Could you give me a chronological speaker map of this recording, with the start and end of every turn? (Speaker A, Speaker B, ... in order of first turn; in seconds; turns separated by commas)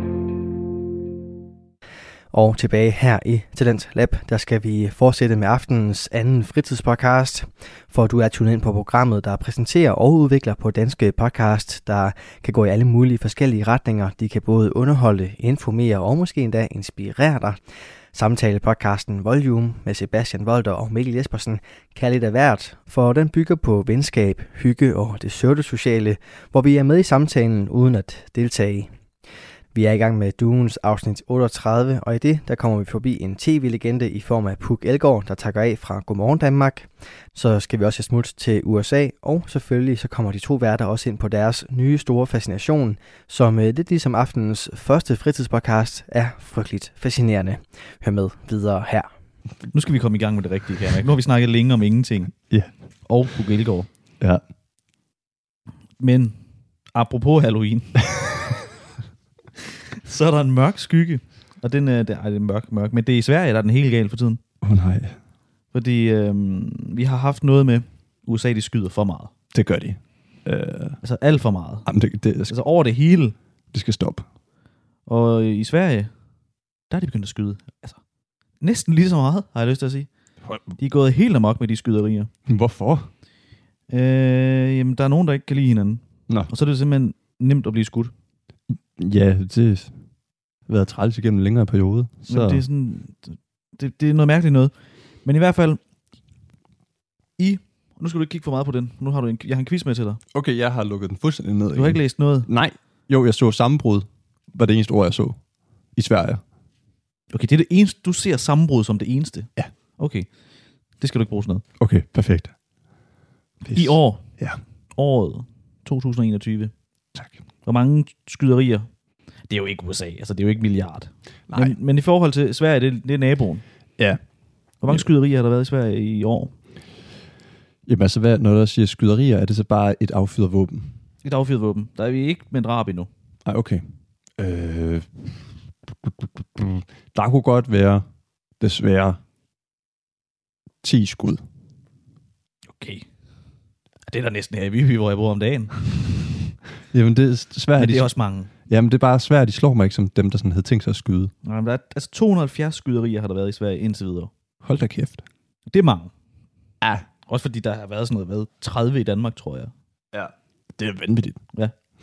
Speaker A: 2.3-17.6, Speaker A: 18.1-28.9, Speaker A: 29.7-49.1, Speaker B: 49.7-52.3, Speaker B: 53.1-53.9, Speaker B: 56.0-56.4, Speaker B: 57.0-58.4, Speaker B: 60.0-64.4, Speaker C: 64.6-65.2, Speaker B: 65.7-69.3, Speaker C: 69.5-71.0, Speaker B: 71.0-71.9, Speaker C: 71.9-72.5, Speaker B: 72.5-73.4, Speaker C: 73.7-74.2, Speaker B: 75.1-76.1, Speaker B: 76.9-78.0, Speaker B: 78.6-80.1, Speaker B: 80.8-82.3, Speaker C: 82.5-83.1, Speaker B: 83.9-88.1, Speaker C: 88.7-89.9, Speaker C: 90.7-92.6, Speaker B: 92.3-94.7, Speaker B: 95.2-95.8, Speaker B: 97.4-100.2, Speaker C: 100.3-105.4, Speaker B: 101.7-102.5, Speaker C: 106.0-106.4, Speaker B: 107.3-110.3, Speaker B: 111.0-111.6, Speaker C: 111.8-112.5, Speaker C: 113.6-114.6, Speaker B: 113.7-114.3, Speaker B: 115.0-116.7, Speaker B: 117.6-118.9, Speaker B: 119.5-123.6, Speaker C: 121.5-121.8, Speaker B: 124.8-126.5, Speaker C: 127.9-130.9, Speaker B: 131.2-133.1, Speaker C: 133.4-133.8, Speaker C: 134.4-135.3, Speaker C: 135.8-138.0, Speaker C: 138.6-139.2, Speaker C: 140.8-141.4, Speaker B: 142.8-143.1, Speaker B: 144.1-146.3, Speaker C: 146.9-148.1, Speaker B: 147.8-148.5, Speaker C: 148.7-151.3, Speaker B: 151.4-154.3, Speaker C: 154.6-155.2, Speaker B: 155.7-156.1, Speaker B: 157.3-159.7, Speaker C: 160.1-161.4